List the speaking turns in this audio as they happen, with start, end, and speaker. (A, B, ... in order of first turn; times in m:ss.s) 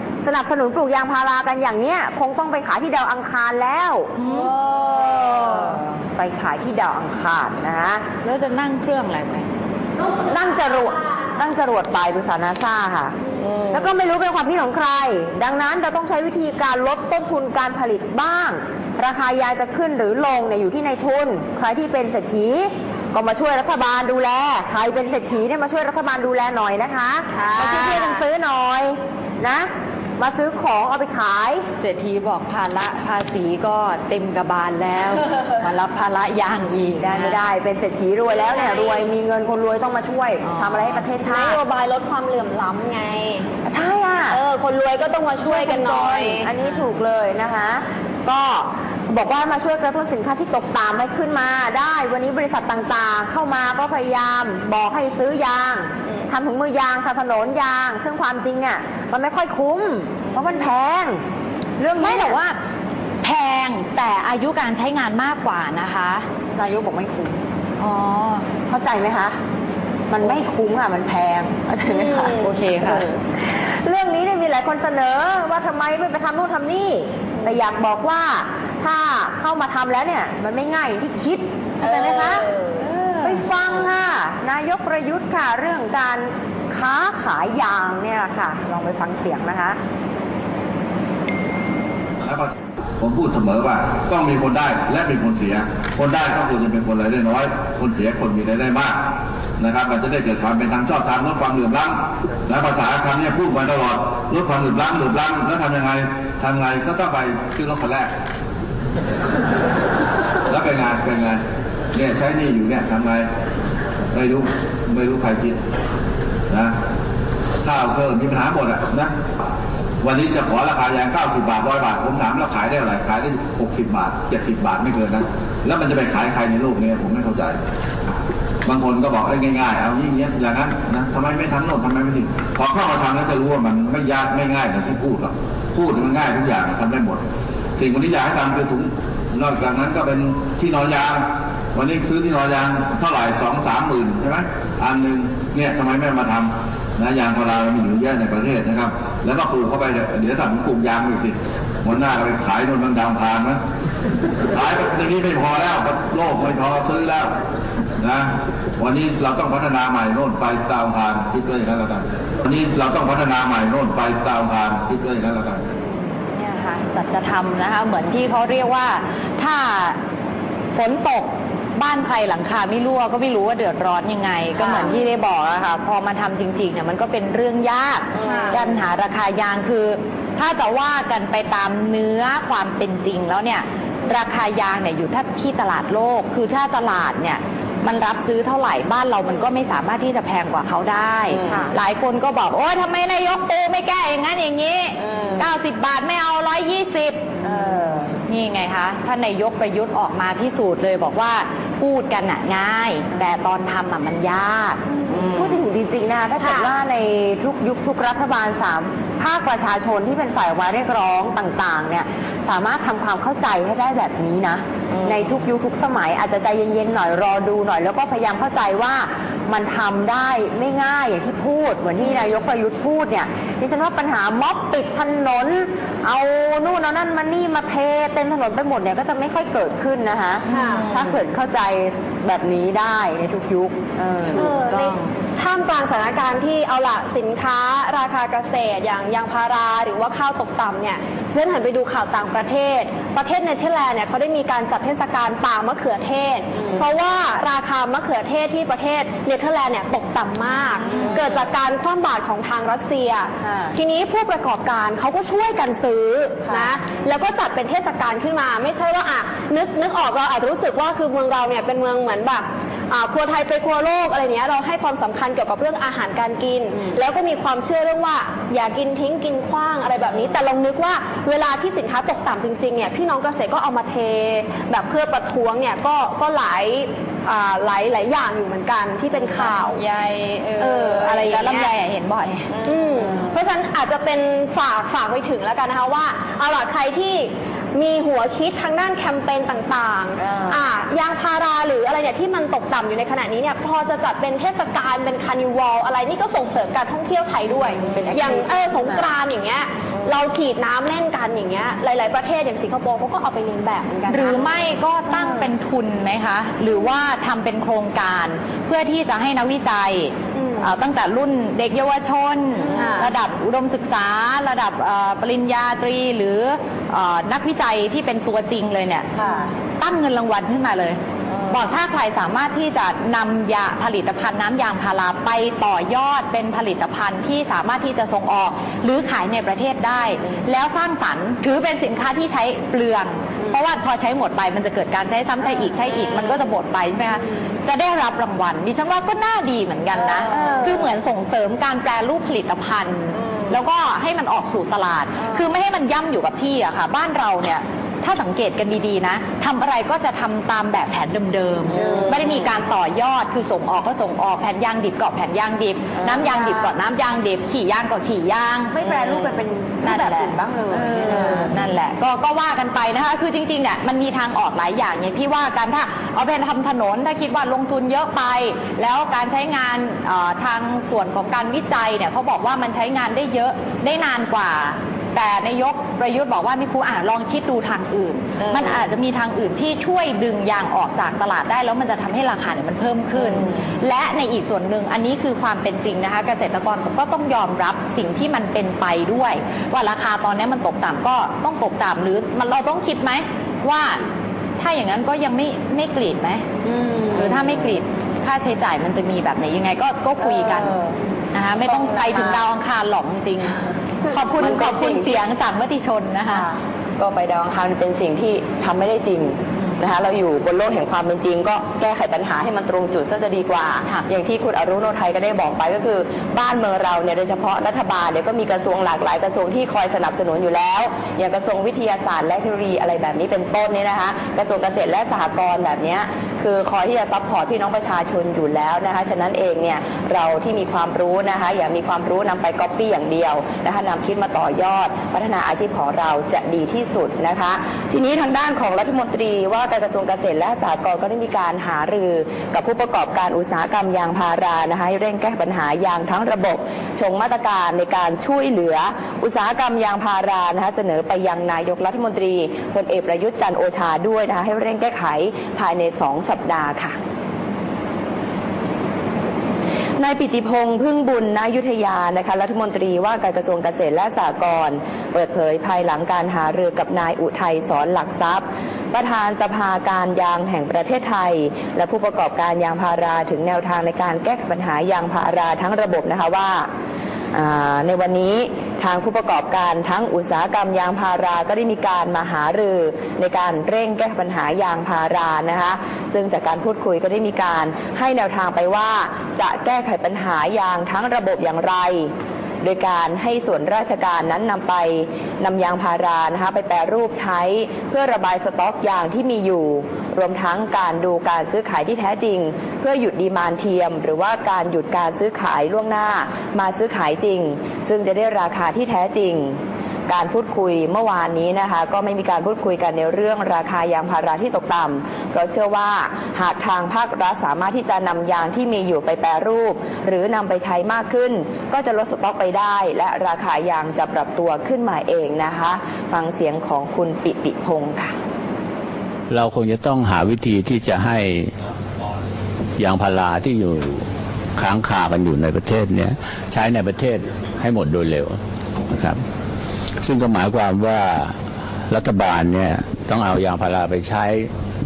0:00.2-0:04.1 A
0:04.2-0:04.6 B
0:04.9-0:08.0 A
0:08.2-0:09.5 B
0:10.0-0:13.2 A
0:13.7-0:31.7 A
0:27.6-0:28.2 B
0:31.8-0:37.4 B
0:37.0-0:41.6 A
0:38.4-0:39.1 C
0:40.4-0:41.0 B
0:41.1-0:43.5 C
0:43.7-0:44.4 A
0:44.3-0:46.5 C
0:45.4-1:01.2 A
1:01.8-1:02.3 A
1:02.0-1:02.6 B
1:03.2-1:06.3 B
1:06.6-1:07.4 A
1:07.8-1:08.5 B
1:08.7-1:09.4 A
1:10.1-1:13.2 A
1:12.3-1:13.1 B
1:13.8-1:22.6 A
1:21.9-1:22.4 C
1:23.2-1:29.8 A
1:32.2-1:39.0 D
1:39.6-1:48.1 D
1:50.5-1:51.4 D
1:51.9-1:53.3 D
1:54.1-1:55.6 D
1:57.6-1:59.1 D
2:00.0-2:07.6 D
2:08.7-2:17.2 D
2:17.8-2:33.6 D
2:34.5-2:37.3 D
2:38.0-2:45.6 D
2:46.4-2:50.0 B
2:50.8-3:17.4 B
2:58.2-2:58.6 C
3:15.1-3:15.4 A
3:17.4-3:18.1 A
3:18.3-3:24.8 B
3:25.3-3:54.5 A
3:26.4-3:26.8 C
3:35.0-3:35.2 E
3:50.5-3:51.2 B
3:50.5-3:50.9 C
3:54.3-3:55.1 B
3:54.4-4:39.8 C
4:06.6-4:06.9 A
4:10.9-4:11.4 A
4:13.4-4:13.8 A
4:16.5-4:16.8 A
4:39.1-4:42.5 B
4:40.6-4:41.7 C
4:42.6-5:04.5 C
4:42.7-4:43.3 A
4:50.3-4:50.6 A
4:57.9-4:59.1 A
5:04.1-5:19.1 B
5:10.4-5:10.7 C
5:12.7-5:13.1 C
5:19.8-5:21.0 B
5:21.5-5:59.3 B
5:40.3-5:40.9 A
5:51.8-5:52.2 A
5:56.0-5:56.7 A
5:58.7-6:01.5 A
5:59.8-6:34.0 B
6:18.4-6:18.7 E
6:34.6-6:36.4 B
6:36.7-6:37.4 A
6:37.1-6:40.8 B
6:40.4-6:40.9 A
6:41.3-6:43.6 B
6:42.0-6:42.4 A
6:44.1-6:46.5 B
6:44.4-6:45.0 E
6:47.0-7:37.0 E
7:40.0-7:56.7 E
7:57.3-8:12.1 E
8:12.6-8:48.2 E
8:49.3-8:51.5 F
8:52.8-8:54.1 F
8:54.6-8:58.4 F
8:58.9-8:59.2 F
9:00.0-9:01.3 F
9:01.9-9:04.5 F